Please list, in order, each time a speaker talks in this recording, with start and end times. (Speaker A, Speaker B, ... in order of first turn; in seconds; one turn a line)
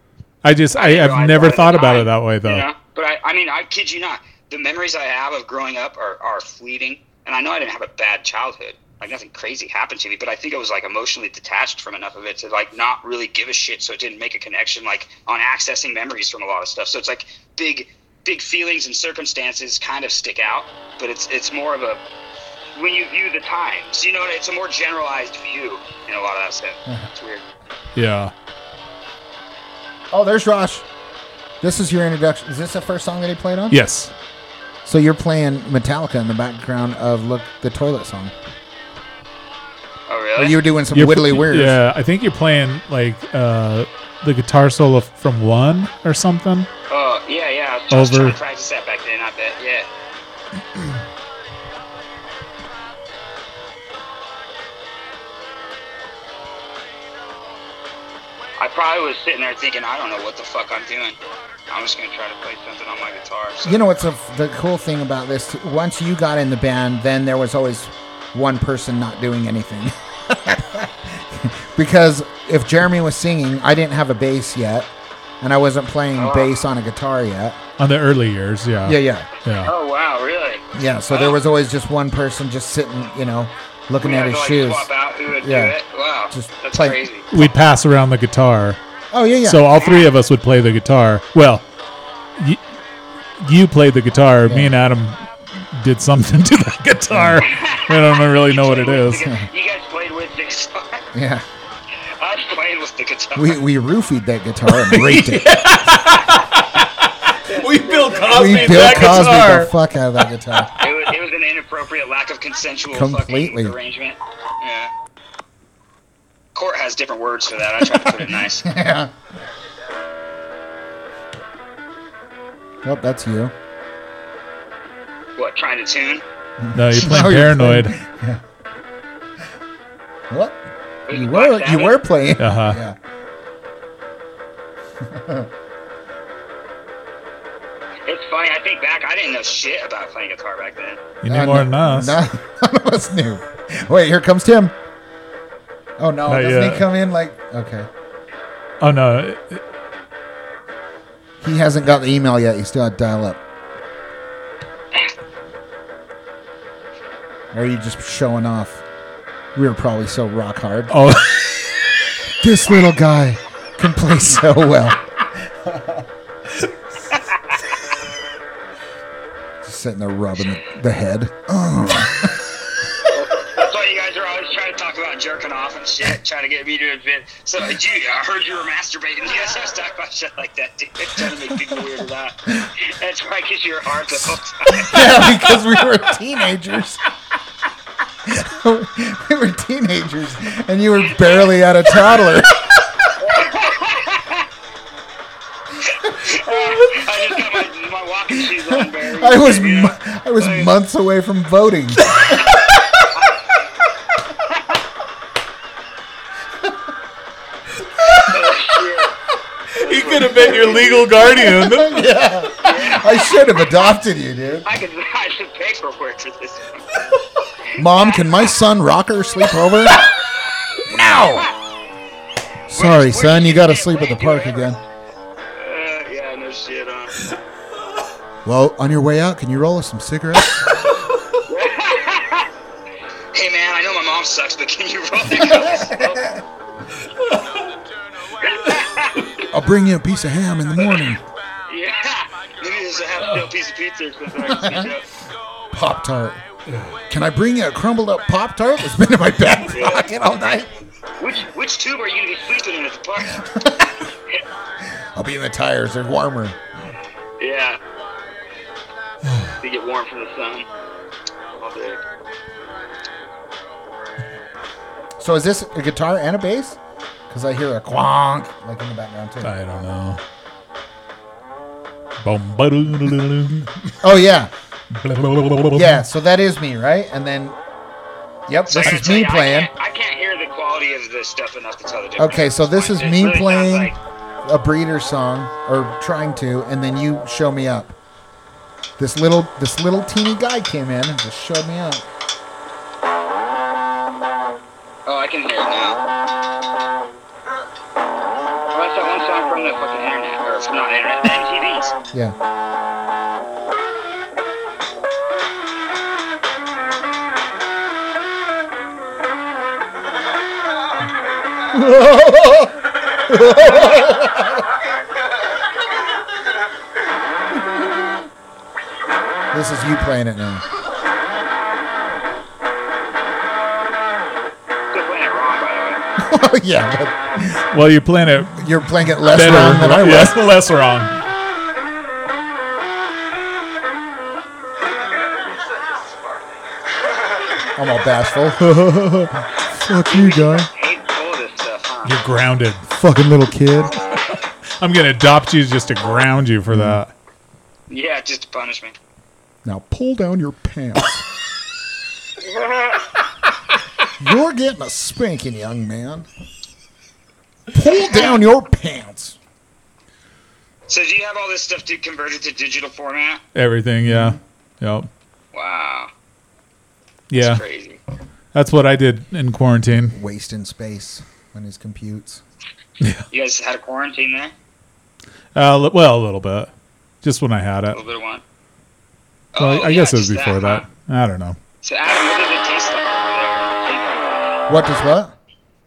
Speaker A: 0.4-2.7
Speaker B: 0.8-22.0
Speaker B: 22.8-27.4
Speaker A: 27.9-28.3
Speaker C: 30.1-30.9
Speaker C: 31.6-33.8
Speaker A: 33.7-34.1
Speaker C: 34.9-38.3
Speaker B: 40.1-40.6
Speaker C: 40.4-41.8
Speaker A: 40.9-46.7
Speaker B: 46.9-49.9
Speaker A: 47.9-48.4
Speaker B: 58.6-63.8
Speaker C: 63.6-77.6
Speaker B: 76.2-76.5
Speaker A: 77.8-79.7
Speaker C: 78.8-79.3
Speaker B: 79.6-81.4
Speaker C: 80.7-85.8
Speaker B: 84.0-87.3
Speaker C: 86.3-87.0
Speaker A: 87.3-88.8
Speaker C: 89.1-89.7
Speaker A: 89.4-91.7
Speaker B: 89.8-90.1
Speaker A: 93.4-99.3
Speaker C: 94.4-94.7
Speaker C: 97.1-97.5
Speaker B: 97.4-101.1
Speaker C: 99.2-99.5
Speaker C: 101.1-101.5
Speaker B: 102.2-103.6
Speaker C: 103.3-105.7
Speaker A: 104.7-109.7
Speaker B: 107.5-109.3
Speaker C: 108.3-110.7
Speaker B: 110.8-114.9
Speaker C: 112.9-113.8
Speaker B: 116.5-118.7
Speaker C: 117.8-119.1
Speaker C: 122.8-123.5
Speaker B: 125.4-126.2
Speaker C: 126.6-128.4
Speaker A: 126.8-128.0
Speaker C: 130.3-133.0
Speaker B: 131.1-132.0
Speaker A: 132.4-132.8
Speaker C: 135.0-135.5
Speaker B: 138.1-141.0
Speaker A: 141.2-142.2
Speaker C: 141.3-144.7
Speaker C: 146.0-147.9
Speaker A: 146.3-146.9
Speaker A: 148.8-149.6
Speaker C: 151.4-153.4
Speaker C: 157.5-158.8
Speaker C: 159.6-161.2
Speaker A: 160.9-161.6
Speaker C: 162.4-166.1
Speaker B: 167.1-167.6
Speaker C: 169.6-172.4
Speaker B: 173.1-185.6
Speaker C: 184.7-187.0
Speaker C: 188.3-192.7
Speaker B: 193.2-194.5
Speaker B: 195.8-200.7
Speaker C: 198.5-202.5
Speaker B: 204.5-204.8
Speaker B: 208.2-209.1
Speaker A: 209.8-212.1
Speaker B: 209.8-211.0
Speaker C: 210.3-214.7
Speaker B: 212.6-213.6
Speaker B: 214.6-216.8
Speaker B: 217.8-218.5
Speaker C: 217.8-220.0
Speaker C: 220.9-221.5
Speaker C: 222.7-224.8
Speaker B: 222.8-224.7
Speaker B: 225.6-227.2
Speaker C: 228.4-230.8
Speaker B: 231.4-232.5
Speaker B: 233.3-236.4
Speaker C: 235.3-236.4
Speaker B: 238.4-239.5
Speaker C: 239.5-241.2
Speaker B: 241.7-245.1
Speaker C: 244.4-244.9
Speaker C: 245.7-246.4
Speaker A: 246.7-247.0
Speaker C: 247.1-250.7
Speaker B: 249.7-250.1
Speaker B: 251.2-253.4
Speaker C: 253.3-254.1
Speaker C: 255.2-256.6
Speaker B: 257.4-257.8
Speaker B: 259.6-260.7
Speaker B: 261.5-262.0
Speaker C: 265.2-266.8
Speaker C: 267.3-269.6
Speaker A: 269.4-270.2
Speaker A: 272.2-274.0
Speaker C: 274.0-274.5
Speaker A: 274.9-276.0
Speaker C: 275.7-277.6
Speaker C: 278.5-279.7
Speaker B: 278.7-284.0
Speaker C: 282.2-288.0
Speaker C: 289.0-292.1
Speaker B: 295.1-296.0
Speaker B: 298.7-301.9
Speaker C: 311.7-314.7
Speaker C: 317.6-318.2
Speaker C: 319.5-320.6
Speaker B: 324.9-326.0
Speaker C: 326.2-327.8
Speaker A: 327.7-328.6
Speaker C: 328.5-330.4
Speaker A: 329.3-331.2
Speaker C: 337.7-340.7
Speaker B: 340.1-342.2
Speaker A: 342.1-342.8
Speaker C: 342.9-344.0
Speaker A: 344.8-347.1
Speaker C: 346.7-347.0
Speaker B: 347.9-348.9
Speaker C: 349.6-351.2
Speaker B: 352.4-353.0
Speaker C: 354.1-356.3
Speaker C: 357.7-359.4
Speaker B: 358.1-358.4
Speaker B: 360.9-363.4
Speaker A: 363.6-365.1
Speaker C: 364.0-364.4
Speaker B: 365.5-366.1
Speaker A: 367.3-367.6
Speaker B: 367.4-368.0
Speaker A: 368.5-370.2
Speaker C: 370.1-372.4
Speaker B: 373.3-374.5
Speaker A: 375.6-376.7
Speaker A: 377.2-378.0
Speaker B: 377.9-378.4
Speaker B: 379.5-380.9
Speaker A: 379.6-381.6
Speaker B: 381.8-384.6
Speaker C: 384.7-385.4